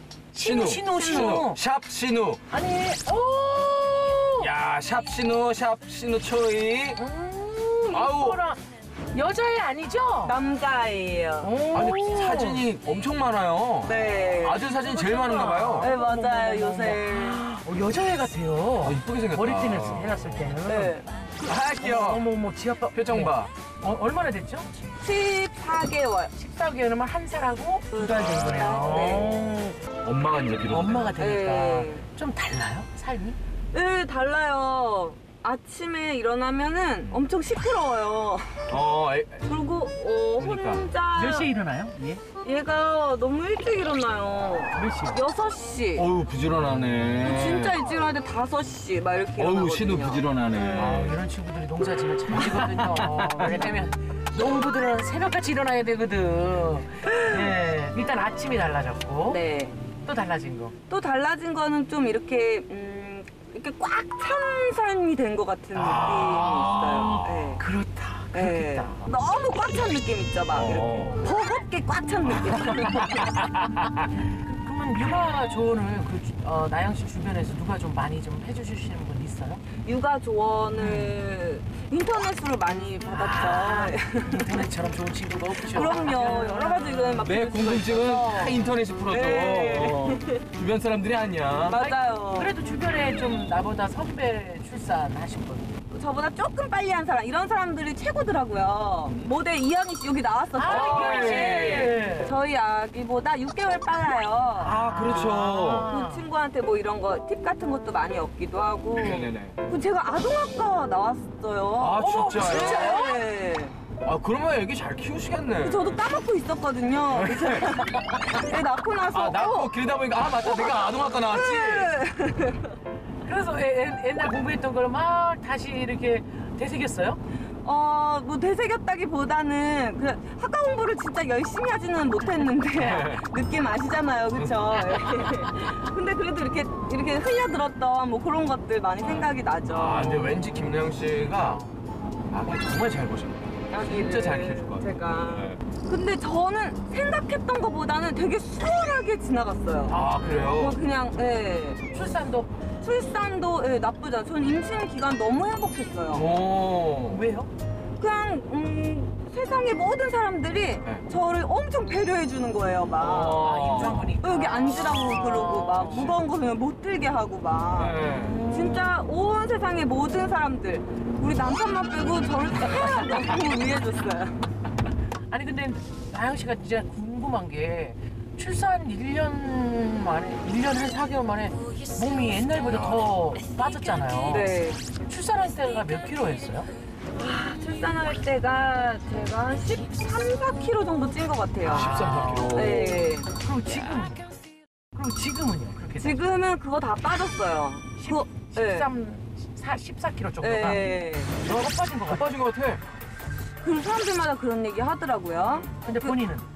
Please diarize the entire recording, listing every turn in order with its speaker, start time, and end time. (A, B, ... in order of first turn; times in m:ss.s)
0:00.3-0:01.6 A
0:00.4-0:02.4 B
0:00.9-0:01.4 C
0:02.5-0:04.5 A
0:04.4-0:07.0 B
0:07.0-0:10.4 A
0:07.9-0:08.4 B
0:10.2-0:11.5 C
0:11.4-0:12.6 A
0:11.7-0:15.9 B
0:13.8-0:14.7 C
0:14.9-0:21.0 A
0:15.8-0:17.4 C
0:18.8-0:20.3 B
0:20.6-0:21.0 C
0:21.4-0:22.2 B
0:21.7-0:24.7 A
0:22.9-0:23.5 B
0:25.0-0:26.3 C
0:26.3-0:29.8 A
0:27.9-0:29.4 C
0:30.0-0:31.2 B
0:30.6-0:33.4 A
0:31.2-0:32.1 C
0:33.7-0:38.8 C
0:38.7-0:39.5 B
0:39.4-0:41.5 C
0:40.4-0:40.9 B
0:41.1-0:42.2 A
0:42.4-0:46.1 C
0:44.7-0:45.2 A
0:46.0-0:47.8 B
0:47.2-0:51.1 C
0:49.4-0:51.1 B
0:50.7-0:59.4 A
0:52.9-0:53.2 B
0:59.3-0:59.8 C
1:00.0-1:00.7 A
1:00.9-1:07.6 C
1:05.7-1:09.0 A
1:06.0-1:07.2 B
1:08.3-1:13.3 C
1:10.5-1:11.0 B
1:10.7-1:11.2 A
1:14.4-1:19.6 A
1:19.8-1:24.6 C
1:20.8-1:21.2 A
1:23.1-1:27.2 A
1:25.6-1:30.4 C
1:27.2-1:31.8 B
1:31.7-1:32.5 C
1:31.7-1:35.7 A
1:35.9-1:45.3 C
1:40.5-1:42.3 A
1:40.6-1:42.0 B
1:44.6-1:46.2 A
1:44.8-1:45.9 B
1:45.8-1:53.7 C
1:49.0-1:49.6 B
1:51.8-1:52.9 B
1:51.9-1:53.2 A
1:54.0-1:56.0 B
1:55.6-1:59.7 C
1:57.1-1:57.9 B
1:59.1-2:02.0 B
2:00.4-2:02.7 C
2:03.2-2:07.2 A
2:07.6-2:20.5 C
2:12.7-2:13.2 B
2:14.4-2:15.3 B
2:19.0-2:21.7 B
2:22.3-2:25.6 B
2:23.7-2:31.9 C
2:29.9-2:30.8 B
2:29.9-2:30.5 A
2:31.9-2:32.5 A
2:32.8-2:36.3 C
2:36.1-2:37.2 B
2:37.1-2:37.5 A
2:38.0-2:54.4 C
2:43.0-2:44.1 B
2:43.3-2:46.1 A
2:47.7-2:48.4 B
2:48.5-2:48.8 A
2:55.3-3:06.7 A
3:02.6-3:03.1 B
3:04.3-3:04.8 C
3:07.2-3:13.8 C
3:11.6-3:13.1 B
3:11.7-3:12.7 A
3:13.3-3:14.3 A
3:14.9-3:16.2 A
3:16.0-3:18.9 C
3:18.0-3:22.3 A
3:20.4-3:21.3 C
3:22.1-3:22.8 B
3:23.6-3:26.2 C
3:25.8-3:26.5 A